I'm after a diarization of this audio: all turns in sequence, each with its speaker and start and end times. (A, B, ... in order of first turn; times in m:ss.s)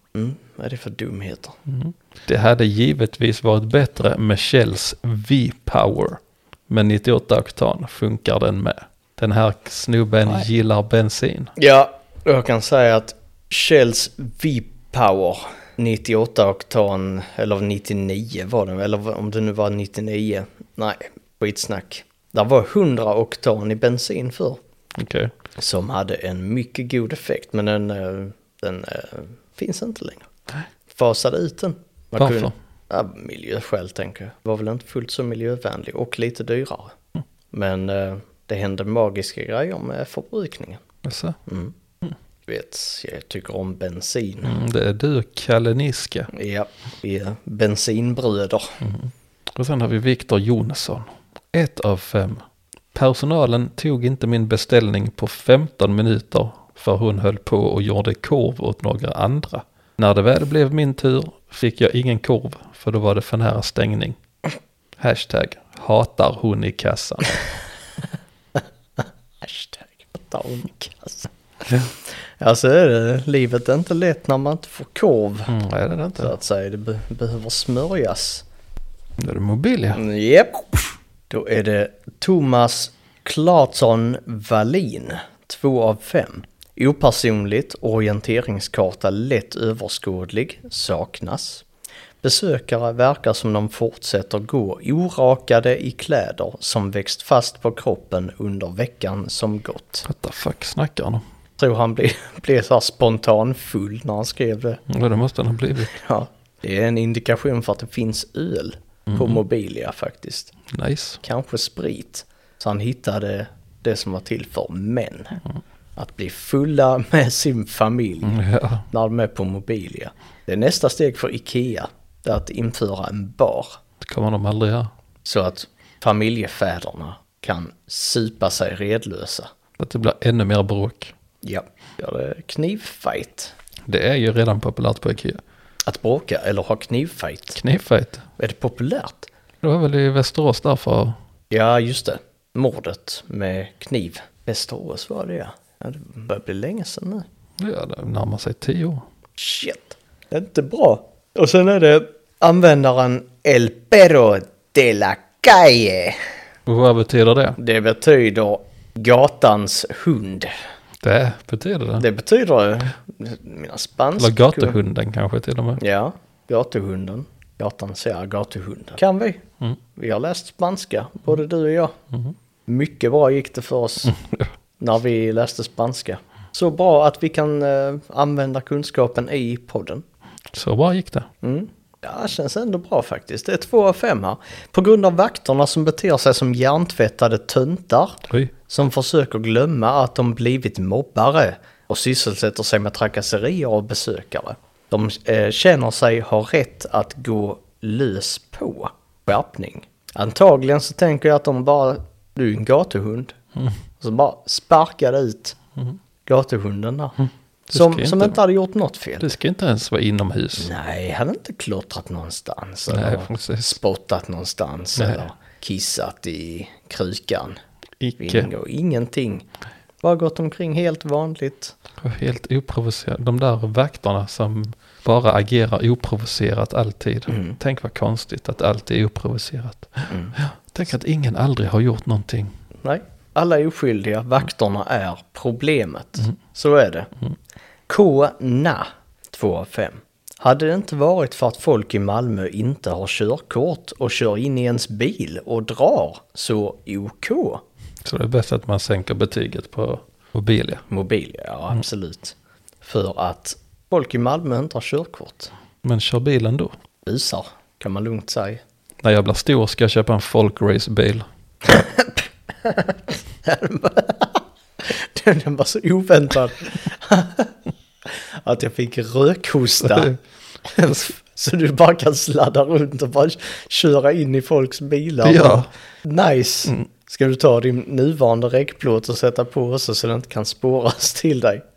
0:00.1-0:01.6 A
0:01.7-0:11.5 B
0:11.6-0:24.6 A
0:25.0-0:25.3 B
0:25.6-0:30.3 A
0:30.9-0:36.9 A
0:32.2-0:32.5 B
0:37.5-0:40.8 A
0:41.0-0:41.4 B
0:41.4-0:41.7 A
0:42.5-0:44.5 A
0:44.4-0:46.3 B
0:46.3-0:48.8 A
0:48.8-1:04.2 B
1:05.0-1:07.3 B
1:08.6-1:11.3 A
1:12.4-1:15.5 A
1:15.5-1:16.3 B
1:16.2-1:18.4 A
1:19.2-1:20.0 B
1:19.9-1:31.6 A
1:32.2-1:40.1 A
1:40.0-1:41.2 B
1:41.6-1:44.8 A
1:44.9-1:45.9 B
1:45.9-1:50.5 A
1:49.1-1:49.4 B
1:50.7-1:51.2 B
1:51.2-1:55.4 A
1:56.0-1:58.4 A
1:58.2-1:58.8 B
1:58.9-2:03.8 A
2:04.0-2:04.9 B
2:05.2-2:09.5 A
2:09.8-2:11.1 B
2:11.4-2:13.5 A
2:13.9-2:15.4 B
2:15.8-2:17.6 A
2:17.6-2:18.2 B
2:18.4-2:19.3 A
2:19.6-2:21.2 B
2:21.5-2:27.2 A
2:27.6-2:29.0 B
2:29.4-2:36.2 A
2:36.6-2:37.6 B
2:37.6-2:40.5 A
2:41.0-2:42.0 B
2:42.0-2:44.8 A
2:44.2-2:45.8 B
2:45.8-2:49.4 A
2:49.9-2:52.0 A
2:52.7-2:54.2 A
2:54.1-2:54.5 B
2:54.8-3:00.0 A
3:00.5-3:01.3 B
3:01.4-3:23.4 A
3:24.0-3:25.6 A
3:26.2-3:27.2 A
3:27.7-3:28.4 B
3:27.7-3:29.3 A
3:29.2-3:30.7 B
3:30.6-3:37.6 A
3:32.9-3:33.8 B
3:35.0-3:35.2 B
3:38.0-3:38.5 B
3:38.2-3:39.5 A
3:40.0-3:41.8 A
3:42.0-3:52.5 B
3:47.3-3:47.6 A
3:50.1-3:50.3 A
3:52.8-3:57.1 A
3:57.9-4:07.6 A
4:08.0-4:10.8 B
4:10.9-4:15.5 A
4:15.8-4:16.7 B
4:17.0-4:18.6 A
4:19.0-4:21.2 B
4:21.6-4:27.5 A
4:28.1-4:41.6 A
4:29.8-4:30.2 B
4:35.2-4:35.7 B